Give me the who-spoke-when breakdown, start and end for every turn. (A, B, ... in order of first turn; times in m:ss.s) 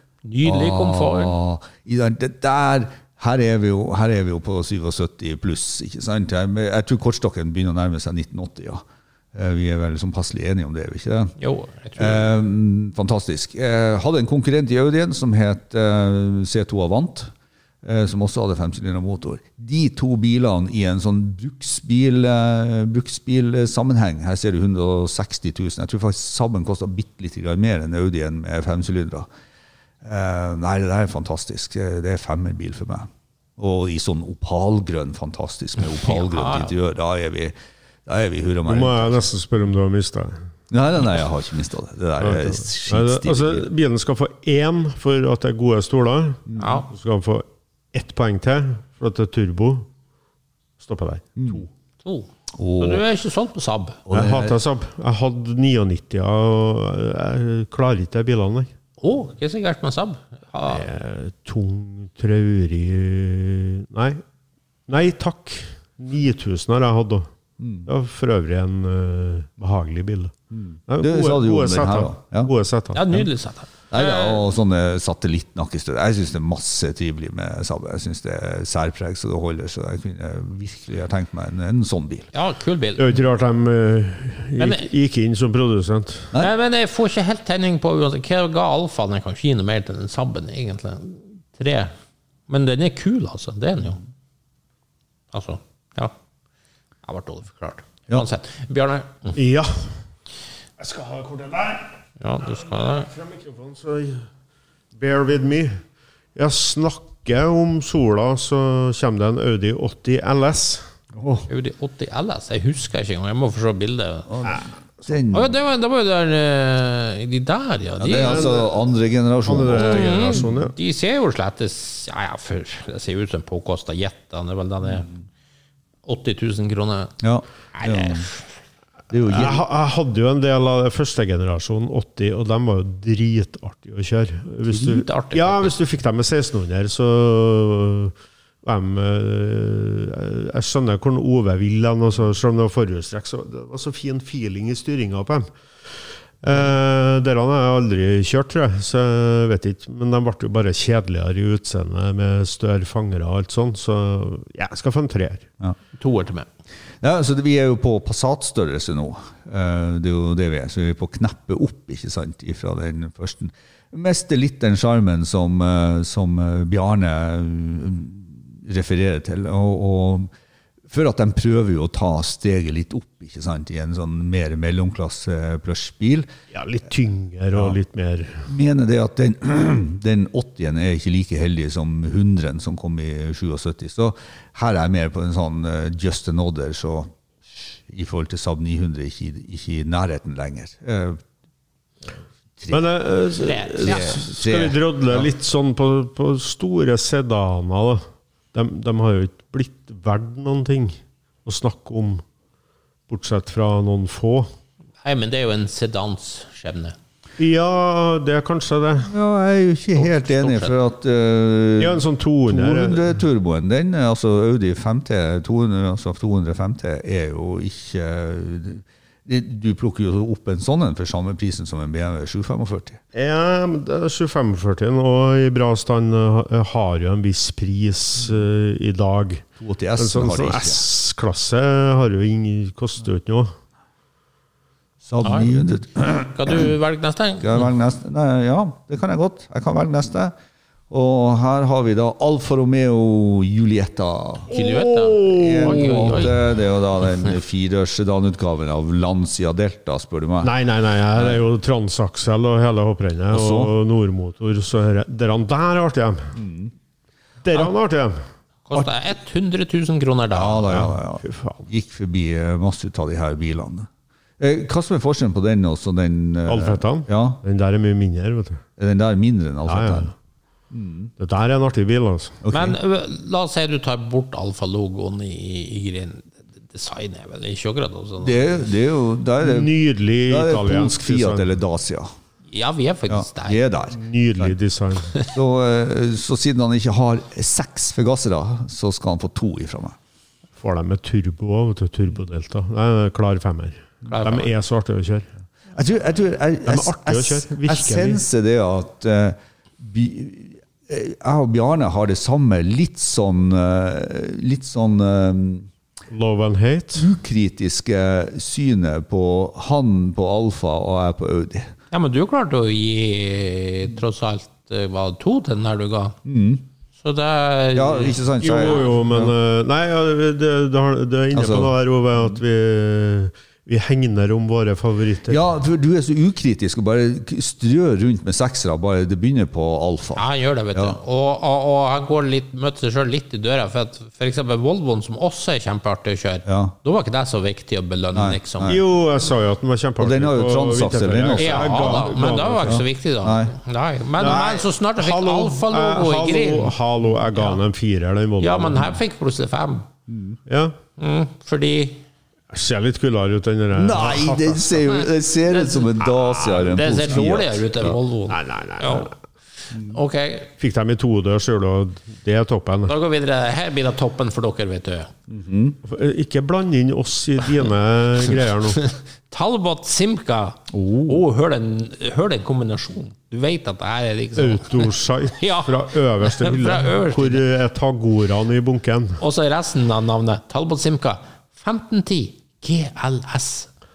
0:00.2-0:01.3 A
0:00.4-0:11.3 B
0:11.4-0:12.3 A
0:12.0-0:17.3 B
0:17.8-0:29.3 B
0:30.0-0:37.5 B
0:35.8-0:36.7 A
0:38.0-0:39.2 B
0:38.7-0:40.4 C
0:40.7-0:43.7 B
0:42.2-0:49.9 C
0:46.6-0:46.9 A
0:50.8-0:51.7 C
0:51.4-0:51.6 B
0:52.0-0:54.0 A
0:52.5-0:53.0 B
0:54.0-0:54.6 B
0:54.1-0:58.7 C
0:59.0-1:00.8 A
1:00.7-1:04.2 C
1:04.9-1:07.3 C
1:07.6-1:07.9 B
1:07.8-1:10.3 C
1:10.5-1:12.5 B
1:10.9-1:13.2 C
1:12.9-1:14.4 A
1:13.9-1:22.3 B
1:22.3-1:23.1 A
1:23.0-1:26.3 C
1:24.6-1:24.9 A
1:26.4-1:31.9 A
1:32.5-1:34.0 A
1:35.3-1:36.1 A
1:37.0-1:39.4 A
1:39.3-1:39.9 C
1:40.8-1:41.9 C
1:42.2-1:43.1 A
1:42.5-1:44.2 C
1:45.0-1:45.8 C
1:46.3-1:50.8 C
1:51.2-1:51.5 B
1:51.5-1:54.4 A
1:54.3-1:55.5 B
1:55.3-1:58.5 A
1:58.0-2:00.4 B
1:58.1-1:58.8 C
1:59.4-2:00.7 C
1:59.8-2:05.1 A
2:06.0-2:07.1 A
2:07.2-2:08.3 B
2:07.7-2:08.4 A
2:09.1-2:09.6 B
2:09.3-2:25.5 C
2:14.7-2:15.8 A
2:26.4-2:35.5 C
2:36.0-2:36.5 A
2:37.0-2:50.3 B
2:50.9-2:56.3 B
2:56.5-2:58.5 C
2:58.4-3:07.1 B
3:07.7-3:11.2 B
3:12.6-3:12.8 B
3:12.7-3:18.0 C
3:13.4-3:14.2 A
3:13.8-3:15.3 B
3:18.5-3:22.2 C
3:23.1-3:24.5 C
3:25.0-3:27.0 A
3:27.4-3:29.1 C
3:29.1-3:43.0 B
3:30.0-3:30.8 A
3:31.8-3:33.1 C
3:43.1-3:53.5 C
3:49.6-3:50.8 B
3:55.0-3:56.7 B
3:55.2-3:55.5 A
3:56.3-3:57.7 A
3:57.4-4:00.3 B
4:00.9-4:04.5 B
4:04.5-4:06.3 A
4:04.5-4:06.3 C
4:05.2-4:10.5 B
4:10.4-4:16.3 C
4:11.1-4:11.4 B
4:13.3-4:13.7 B
4:16.3-4:16.7 B
4:17.4-4:18.2 C
4:18.7-4:20.8 A
4:20.3-4:27.4 B
4:20.7-4:21.6 C
4:26.4-4:28.6 C
4:28.8-4:30.1 B
4:29.6-4:30.1 C
4:30.7-4:31.1 B
4:31.2-4:32.4 C
4:32.4-4:32.8 B
4:32.5-4:38.6 A
4:38.2-4:39.7 B
4:39.4-4:41.5 C
4:40.2-4:42.1 B
4:42.5-4:43.6 A
4:43.1-4:44.6 B
4:43.9-4:45.1 C
4:45.2-4:50.0 B
4:50.6-4:55.3 C
4:54.1-4:54.5 A
4:55.7-5:05.7 B
4:56.6-4:58.2 C
5:06.1-5:07.1 C
5:07.0-5:11.7 B
5:11.9-5:16.2 A
5:16.2-5:16.6 B
5:17.0-5:18.8 A
5:17.7-5:19.3 B
5:18.4-5:25.4 C
5:21.3-5:22.4 B
5:25.3-5:31.0 B
5:30.2-5:38.8 A
5:36.4-5:36.7 B
5:38.1-5:38.8 B
5:38.6-5:42.8 C
5:40.0-5:43.5 B
5:41.4-5:46.7 A
5:44.2-5:49.0 C
5:48.4-5:49.9 A
5:50.1-5:50.4 B
5:50.5-5:50.8 C
5:51.0-5:52.0 A
5:52.5-5:54.7 C
5:53.7-5:58.0 B
5:54.9-5:59.1 A
5:58.3-5:59.1 C
5:59.7-6:00.5 A
6:00.6-6:02.9 C
6:02.9-6:05.1 A
6:05.3-6:05.8 B
6:05.8-6:08.8 C
6:08.7-6:17.4 A
6:10.7-6:11.2 B
6:14.4-6:19.2 C
6:19.2-6:23.7 A